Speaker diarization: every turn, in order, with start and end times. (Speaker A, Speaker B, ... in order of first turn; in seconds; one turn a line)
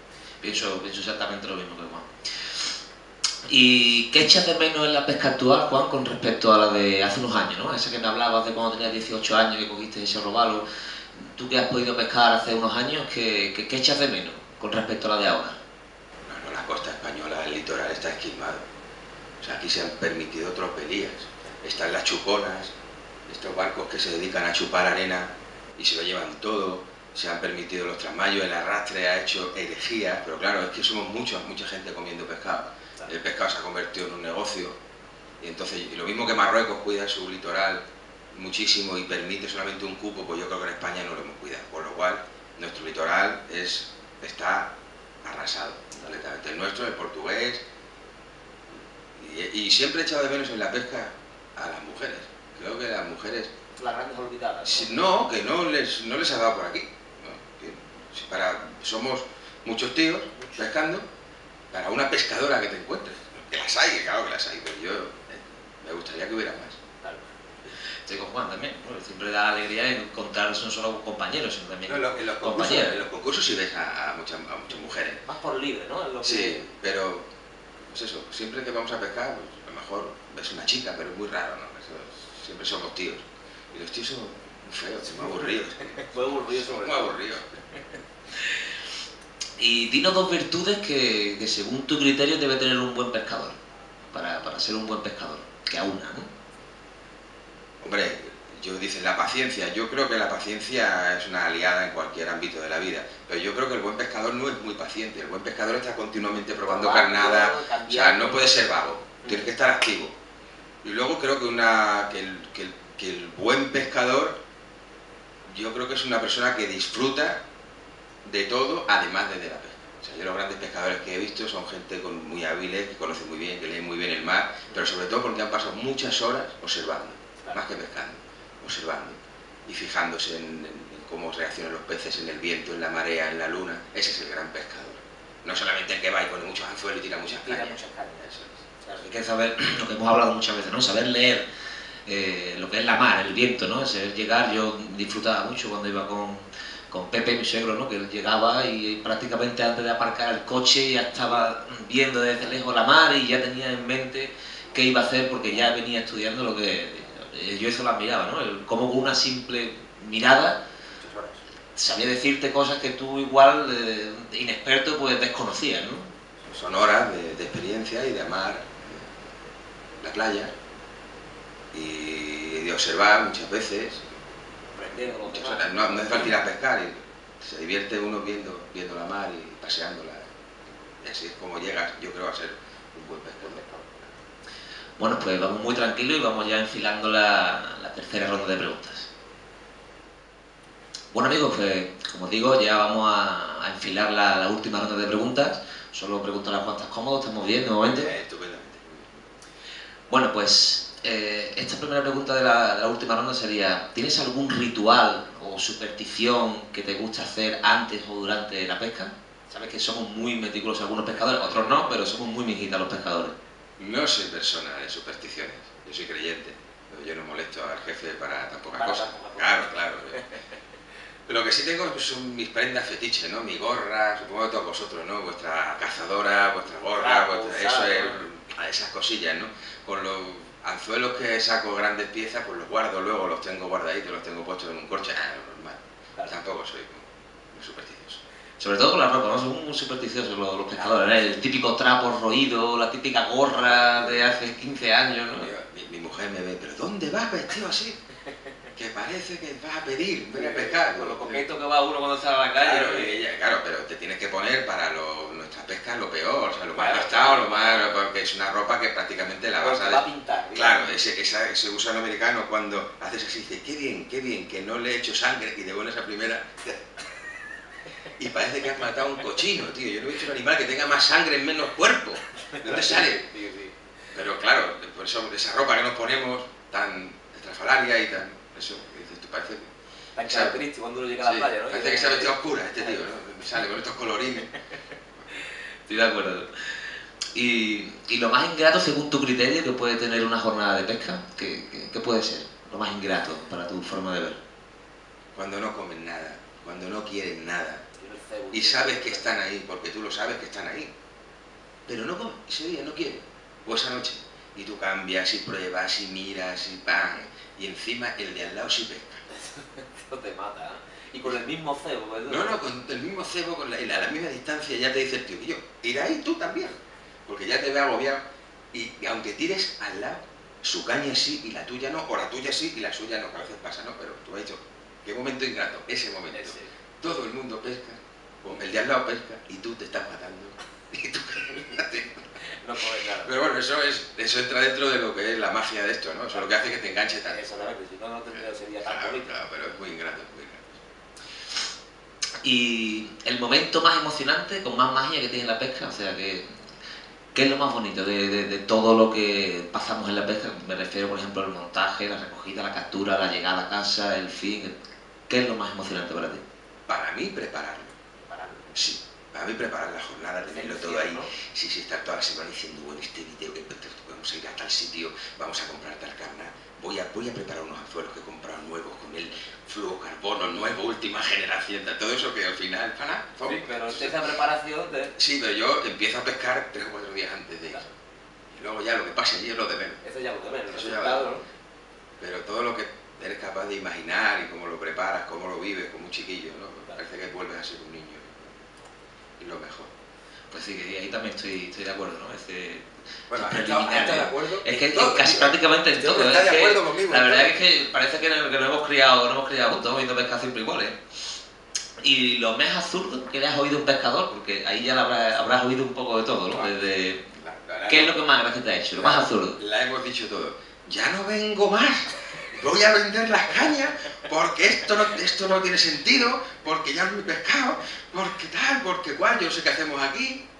Speaker A: 0.4-2.7
Speaker A: 3.5-15.6
Speaker B: 16.2-18.6
Speaker B: 19.4-22.7
Speaker B: 23.3-34.8
Speaker B: 35.4-44.7
Speaker B: 45.2-47.6
Speaker B: 49.1-53.5
Speaker C: 53.8-54.9
Speaker B: 54.6-61.0
Speaker C: 60.4-60.7
Speaker B: 61.7-66.8
Speaker A: 68.0-73.0
Speaker B: 71.8-75.2
Speaker A: 75.3-76.1
Speaker C: 76.1-76.6
Speaker B: 76.2-77.3
Speaker B: 77.9-87.5
Speaker C: 85.2-87.1
Speaker A: 89.6-93.6
Speaker A: 94.1-96.3
Speaker B: 97.8-110.1
Speaker C: 106.6-108.5
Speaker B: 110.8-114.4
Speaker B: 115.5-117.4
Speaker B: 118.2-138.6
Speaker C: 137.2-138.3
Speaker C: 138.8-139.1
Speaker A: 138.9-141.4
Speaker A: 142.1-160.6
Speaker B: 160.9-161.4
Speaker A: 161.7-166.1
Speaker B: 166.5-169.1
Speaker B: 170.0-170.5
Speaker B: 171.7-174.0
Speaker C: 174.7-176.3
Speaker B: 175.2-180.3
Speaker B: 181.0-183.6
Speaker C: 183.4-184.0
Speaker A: 185.0-189.1
Speaker A: 191.1-198.1
Speaker B: 197.8-199.3
Speaker A: 200.1-213.3
Speaker C: 211.6-211.8
Speaker B: 213.8-220.2
Speaker C: 218.7-220.3
Speaker B: 221.3-238.2
Speaker C: 226.9-228.2
Speaker A: 238.6-245.5
Speaker C: 240.7-241.3
Speaker B: 243.6-244.4
Speaker B: 245.3-248.0
Speaker B: 248.7-251.4
Speaker C: 250.3-253.2
Speaker B: 252.5-266.8
Speaker C: 256.7-257.9
Speaker C: 259.6-260.8
Speaker B: 268.2-273.3
Speaker C: 272.6-273.7
Speaker B: 274.1-279.7
Speaker C: 280.1-282.9
Speaker B: 280.2-280.6
Speaker B: 281.2-284.5
Speaker A: 285.9-294.4
Speaker B: 295.3-297.8
Speaker C: 298.0-299.4
Speaker B: 298.5-300.9
Speaker B: 301.9-309.2
Speaker C: 309.3-312.5
Speaker B: 312.2-332.1
Speaker C: 326.3-326.6
Speaker C: 332.6-333.3
Speaker B: 333.1-337.6
Speaker C: 336.3-339.4
Speaker B: 338.8-340.8
Speaker A: 342.4-346.6
Speaker A: 347.3-354.7
Speaker A: 355.3-356.4
Speaker B: 356.9-357.9
Speaker C: 358.3-358.9
Speaker B: 358.7-374.3
Speaker C: 360.5-361.3
Speaker C: 373.4-375.1
Speaker B: 375.1-377.8
Speaker B: 378.5-380.0
Speaker C: 380.0-381.4
Speaker B: 380.7-381.3
Speaker B: 382.2-388.6
Speaker B: 389.4-389.9
Speaker A: 390.5-401.0
Speaker B: 393.3-397.6
Speaker A: 402.0-407.2
Speaker B: 407.4-408.2
Speaker A: 407.9-409.6
Speaker B: 409.0-420.4